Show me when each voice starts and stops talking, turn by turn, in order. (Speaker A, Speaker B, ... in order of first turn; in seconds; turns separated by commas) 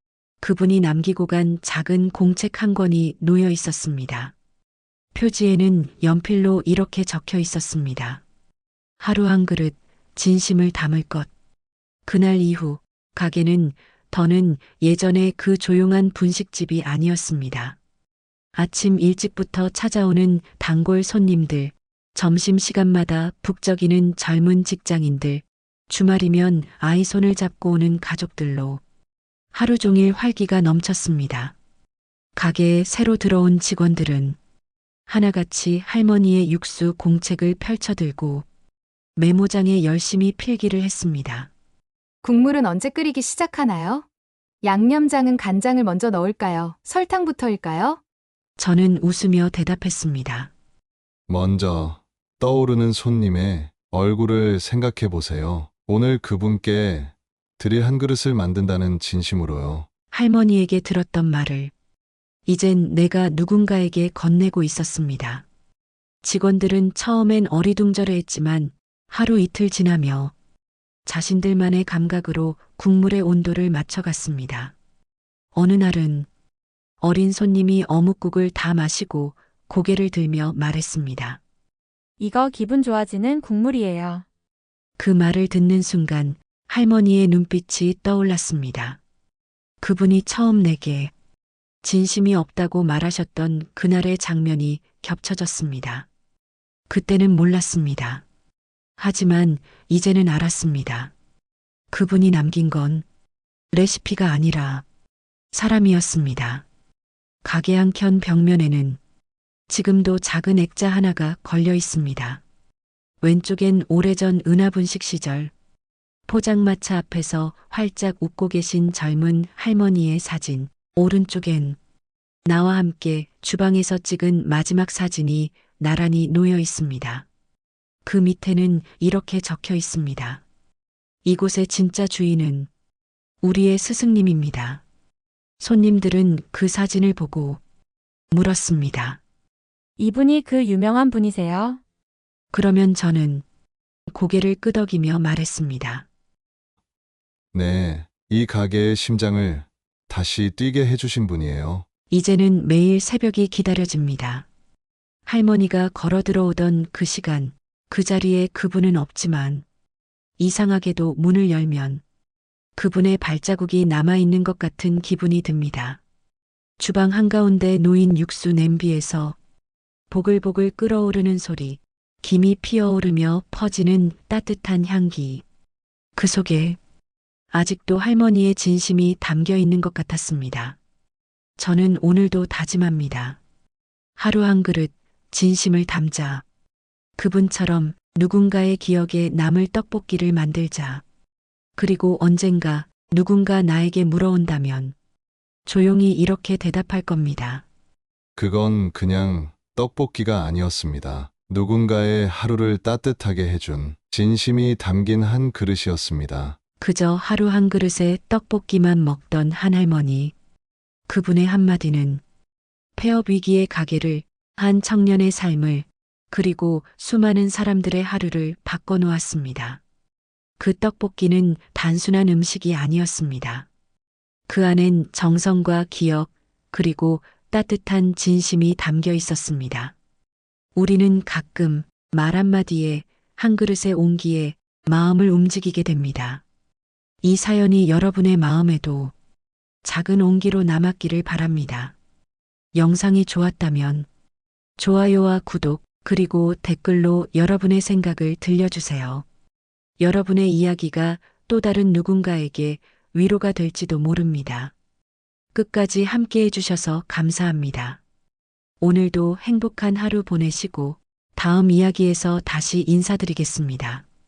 Speaker A: 0.4-4.3, Speaker A: 5.1-8.2, Speaker A: 9.0-11.3, Speaker A: 12.1-17.8, Speaker A: 18.5-28.8, Speaker A: 29.5-31.5, Speaker A: 32.4-34.4, Speaker A: 35.1-38.5, Speaker A: 39.2-41.5, Speaker B: 42.2-44.0, Speaker B: 44.6-48.0, Speaker A: 48.6-50.5, Speaker C: 51.3-59.9, Speaker A: 60.1-61.7, Speaker A: 62.5-65.4, Speaker A: 66.2-70.3, Speaker A: 71.0-74.7, Speaker A: 75.5-76.3, Speaker A: 77.0-81.4, Speaker D: 82.2-84.2, Speaker A: 85.0-89.0, Speaker A: 89.8-91.1, Speaker A: 91.8-96.1, Speaker A: 96.9-98.2, Speaker A: 99.0-101.1, Speaker A: 101.9-103.0, Speaker A: 103.7-104.8, Speaker A: 105.5-106.6, Speaker A: 107.4-109.0, Speaker A: 109.7-112.4, Speaker A: 113.2-115.5, Speaker A: 116.3-121.8, Speaker A: 122.5-127.2, Speaker A: 128.0-130.4, Speaker A: 131.2-132.7, Speaker A: 133.4-134.8, Speaker A: 135.6-137.6, Speaker A: 138.3-139.2, Speaker D: 140.0-141.8, Speaker A: 142.5-143.4, Speaker A: 144.1-146.1, Speaker C: 147.5-151.8, Speaker A: 152.1-154.5, Speaker A: 155.3-159.6, Speaker A: 160.4-162.0, Speaker A: 162.8-166.0, Speaker A: 166.8-169.4, Speaker A: 170.1-175.4, Speaker A: 176.2-176.8, Speaker A: 177.5-180.8, Speaker A: 181.6-183.4, Speaker A: 184.2-186.4, Speaker A: 187.2-191.0, Speaker A: 191.8-194.9, Speaker A: 195.7-197.6, Speaker C: 198.3-206.6, Speaker A: 206.8-210.3, Speaker A: 211.1-212.2, Speaker A: 213.0-219.8, Speaker A: 220.6-223.7, Speaker A: 224.5-229.9, Speaker A: 230.8-236.4, Speaker A: 237.2-239.1, Speaker A: 239.8-241.9, Speaker A: 242.7-244.1, Speaker A: 244.8-249.2, Speaker A: 250.0-254.7, Speaker A: 255.5-258.0, Speaker A: 258.8-264.1